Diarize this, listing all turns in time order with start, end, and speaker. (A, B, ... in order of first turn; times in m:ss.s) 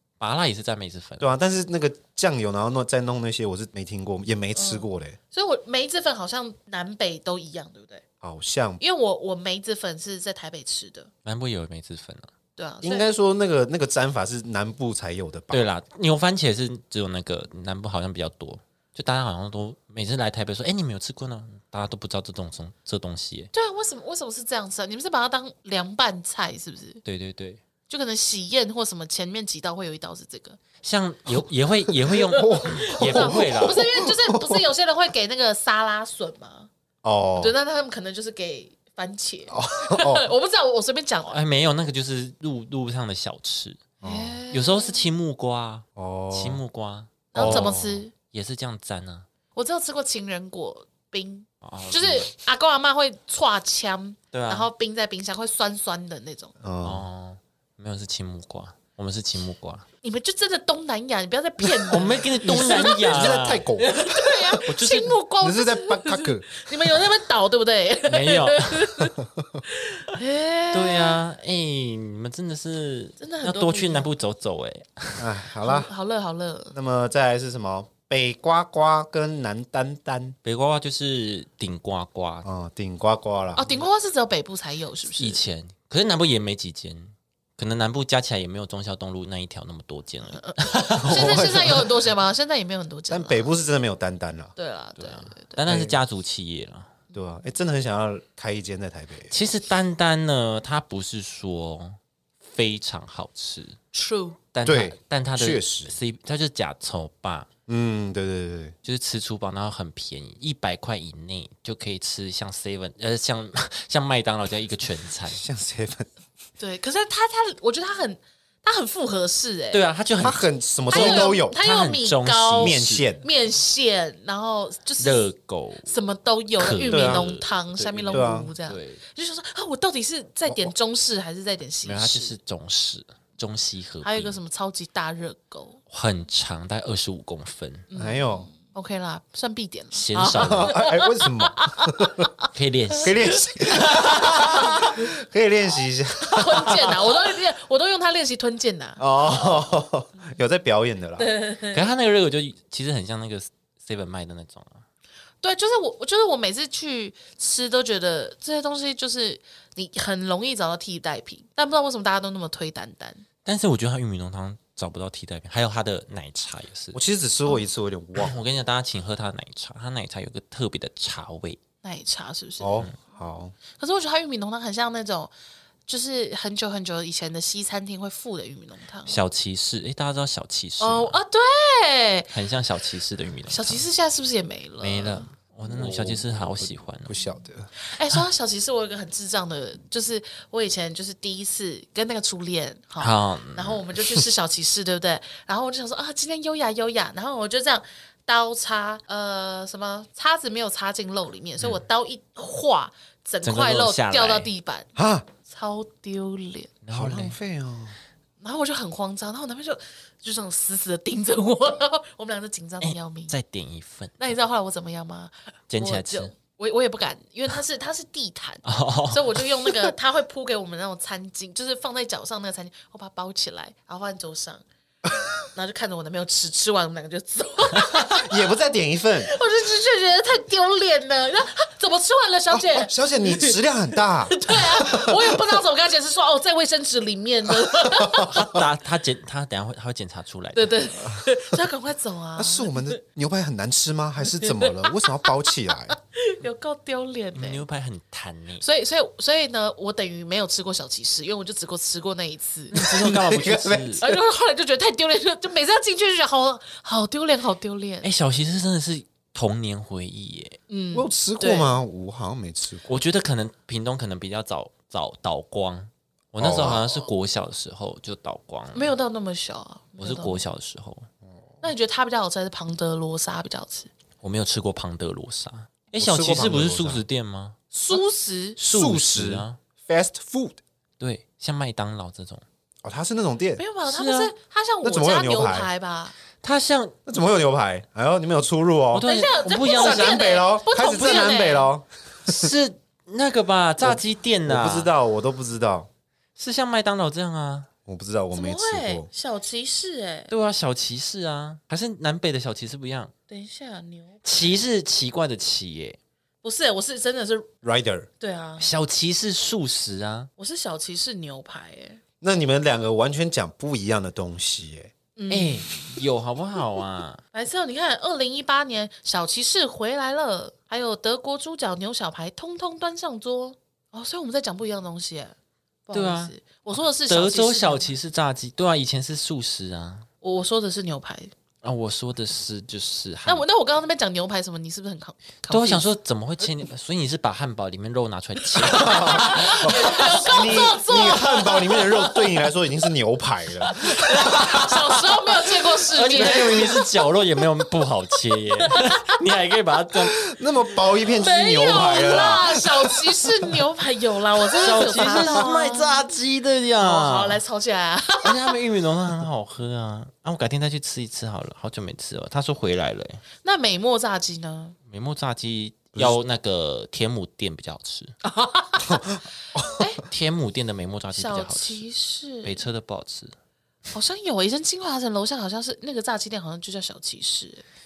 0:00.2-0:01.3 A
0:01.2-0:05.2 B
0:04.5-0:08.0 C
0:08.2-0:08.8 B
0:08.8-0:11.1 C
0:11.2-0:12.3 A
0:12.6-0:13.0 C
0:12.8-0:15.7 B
0:15.5-0:23.5 A
0:23.5-0:27.0 C
0:27.0-0:27.6 A
0:27.9-0:30.6 C
0:30.8-0:33.8 A
0:32.1-0:34.6 B
0:32.2-0:36.7 C
0:37.0-0:37.5 B
0:37.4-0:41.4 C
0:39.5-0:40.3 B
0:41.3-0:43.8 A
0:44.0-0:44.4 B
0:44.0-0:45.0 C
0:44.5-0:49.2 A
0:46.0-0:46.6 B
0:47.3-0:48.1 C
0:47.3-0:48.0 B
0:49.5-0:56.5 C
0:51.6-0:52.3 A
0:54.3-0:54.7 A
0:56.6-0:57.0 B
0:56.8-0:59.8 A
1:00.0-1:09.1 C
1:01.9-1:03.6 A
1:02.4-1:04.6 B
1:04.6-1:05.2 A
1:05.4-1:06.6 B
1:08.1-1:09.0 A
1:09.2-1:09.6 B
1:09.8-1:11.2 C
1:10.7-1:15.3 A
1:13.2-1:14.1 C
1:15.2-1:15.9 B
1:15.6-1:16.7 C
1:16.7-1:20.4 B
1:20.4-1:22.4 A
1:22.4-1:23.7 B
1:23.5-1:25.4 C
1:25.2-1:31.5 A
1:30.4-1:33.5 C
1:31.0-1:31.9 B
1:33.1-1:34.5 B
1:34.6-1:35.6 C
1:35.0-1:36.9 A
1:35.6-1:36.0 B
1:37.1-1:39.3 B
1:39.3-1:43.8 A
1:43.9-1:44.4 C
1:44.5-1:47.5 A
1:44.6-1:45.9 B
1:47.7-1:48.7 B
1:48.8-1:55.4 A
1:55.3-1:56.1 B
1:56.6-1:59.8 C
1:59.7-2:03.0 A
2:00.2-2:01.6 B
2:00.9-2:05.3 C
2:02.6-2:03.2 B
2:05.0-2:05.9 A
2:05.8-2:12.4 C
2:06.6-2:09.0 A
2:06.8-2:07.3 B
2:08.1-2:08.5 B
2:10.5-2:10.7 B
2:11.8-2:14.4 A
2:14.0-2:15.8 C
2:15.9-2:17.9 A
2:17.9-2:22.4 C
2:18.0-2:18.5 B
2:19.9-2:20.8 A
2:20.4-2:22.3 B
2:22.5-2:24.7 A
2:23.0-2:27.1 B
2:23.2-2:25.0 C
2:26.2-2:29.0 C
2:29.0-2:31.3 B
2:31.2-2:31.8 C
2:31.7-2:34.8 A
2:35.4-2:43.2 C
2:43.4-2:47.0 A
2:46.9-2:48.4 B
2:48.1-2:51.6 A
2:51.8-2:52.8 C
2:52.6-2:53.5 B
2:53.7-2:55.3 C
2:55.9-2:59.2 C
2:59.0-3:01.2 A
3:00.8-3:02.3 C
3:02.3-3:03.8 A
3:03.5-3:05.3 C
3:04.8-3:07.1 A
3:05.6-3:07.7 B
3:07.8-3:24.9 C
3:13.0-3:13.8 A
3:23.4-3:24.5 A
3:25.0-3:25.3 B
3:25.4-3:26.7 C
3:26.8-3:27.4 A
3:26.9-3:28.0 B
3:28.4-3:33.3 C
3:32.8-3:34.3 A
3:34.2-3:44.6 C
3:35.7-3:36.3 A
3:38.6-3:39.9 A
3:45.5-3:48.5 C
3:48.1-3:49.3 B
3:49.2-3:53.6 C
3:52.5-3:55.6 B
3:54.3-3:58.5 C
3:57.6-3:58.6 B
3:58.3-4:00.9 A
4:00.5-4:03.0 C
4:02.4-4:06.0 B
4:04.4-4:05.3 C
4:05.9-4:07.6 C
4:07.3-4:08.6 A
4:08.6-4:12.8 C
4:12.7-4:14.0 A
4:12.7-4:14.2 B
4:14.0-4:18.1 C
4:18.0-4:20.6 A
4:20.7-4:21.8 C
4:20.9-4:22.9 B
4:22.9-4:28.9 A
4:26.4-4:26.8 B
4:26.6-4:27.0 C
4:28.7-4:30.4 C
4:30.0-4:31.1 A
4:31.6-4:33.9 C
4:34.2-4:37.6 A
4:36.0-4:37.0 B
4:37.7-4:38.6 C
4:38.6-4:39.6 A
4:38.6-4:40.6 B
4:41.0-4:42.4 A
4:42.8-4:43.6 B
4:43.6-4:46.1 C
4:43.8-4:44.3 A
4:44.8-4:45.7 B
4:46.4-4:47.0 A
4:47.0-4:52.5 B
4:48.9-4:50.3 A
4:49.0-4:51.7 C
4:50.9-4:51.3 A
4:52.2-4:54.9 A
4:53.8-4:55.9 B
4:56.4-4:57.7 A
4:57.8-4:59.1 B
4:58.3-5:00.3 C
5:00.3-5:03.1 A
5:03.3-5:04.6 C
5:04.2-5:06.0 A
5:06.4-5:07.5 C
5:07.6-5:08.1 B
5:08.2-5:08.7 C
5:08.6-5:10.3 A
5:10.4-5:12.0 C
5:12.2-5:14.9 B
5:15.2-5:16.0 C
5:15.3-5:17.2 A
5:17.3-5:25.3 C
5:25.9-5:27.9 C
5:25.9-5:30.1 A
5:30.2-5:31.3 C
5:31.6-5:33.4 A
5:33.2-5:35.9 C
5:35.5-5:40.5 A
5:38.6-5:44.7 B
5:38.7-5:42.4 C
5:41.0-5:41.6 A
5:43.7-5:46.8 C
5:44.0-5:45.0 A
5:45.9-5:50.2 A
5:46.1-5:46.7 B
5:48.6-5:49.2 C
5:50.2-5:53.3 B
5:51.2-5:56.1 C
5:54.6-5:57.4 A
5:55.1-5:55.5 B
5:56.8-5:58.6 C
5:58.2-6:03.2 A
6:03.4-6:04.8 C
6:04.9-6:08.1 A
6:08.2-6:09.2 C
6:08.9-6:09.8 B
6:09.7-6:10.0 C
6:10.1-6:11.8 A
6:11.1-6:12.6 C
6:12.4-6:13.3 A
6:13.9-6:17.6 C